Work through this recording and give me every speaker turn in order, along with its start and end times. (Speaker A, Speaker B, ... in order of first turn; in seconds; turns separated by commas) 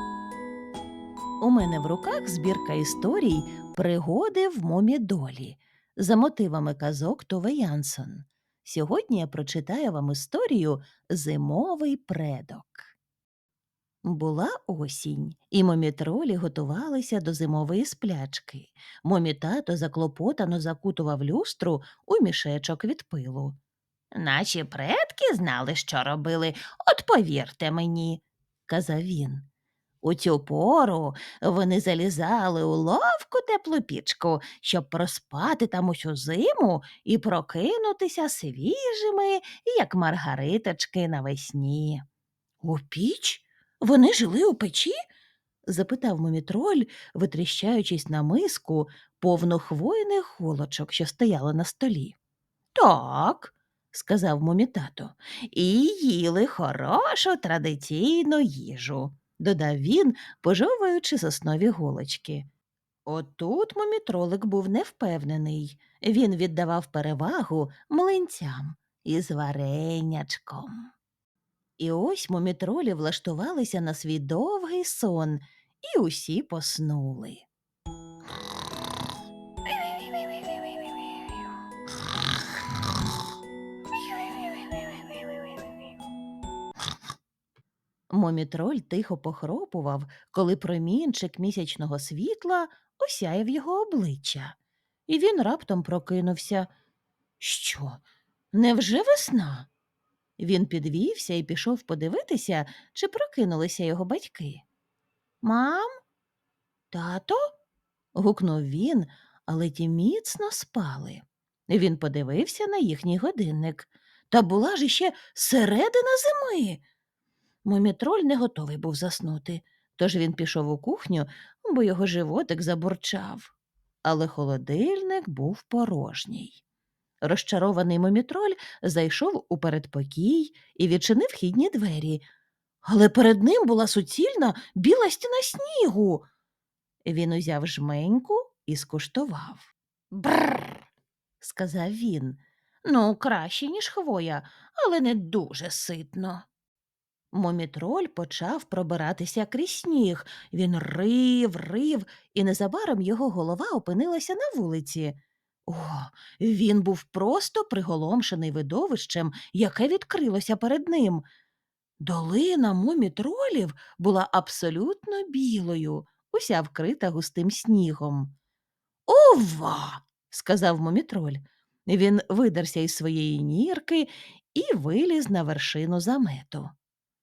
Speaker A: 1.4-12.9, Speaker A: 14.0-23.6, Speaker A: 24.1-29.4, Speaker A: 30.0-42.0, Speaker A: 42.6-44.9, Speaker A: 45.6-52.1, Speaker A: 52.7-62.5, Speaker A: 63.0-70.9, Speaker A: 71.8-77.5, Speaker A: 88.1-94.5, Speaker A: 95.1-96.7, Speaker A: 97.4-98.0, Speaker A: 98.5-99.7, Speaker A: 100.4-104.6, Speaker A: 105.4-105.9, Speaker A: 106.9-107.4, Speaker A: 108.1-116.8, Speaker A: 117.6-123.5, Speaker A: 124.0-126.6, Speaker A: 127.2-132.2, Speaker A: 132.8-136.2, Speaker A: 137.0-140.8, Speaker A: 141.4-146.4, Speaker A: 147.3-161.2, Speaker A: 162.0-168.3, Speaker A: 169.1-176.7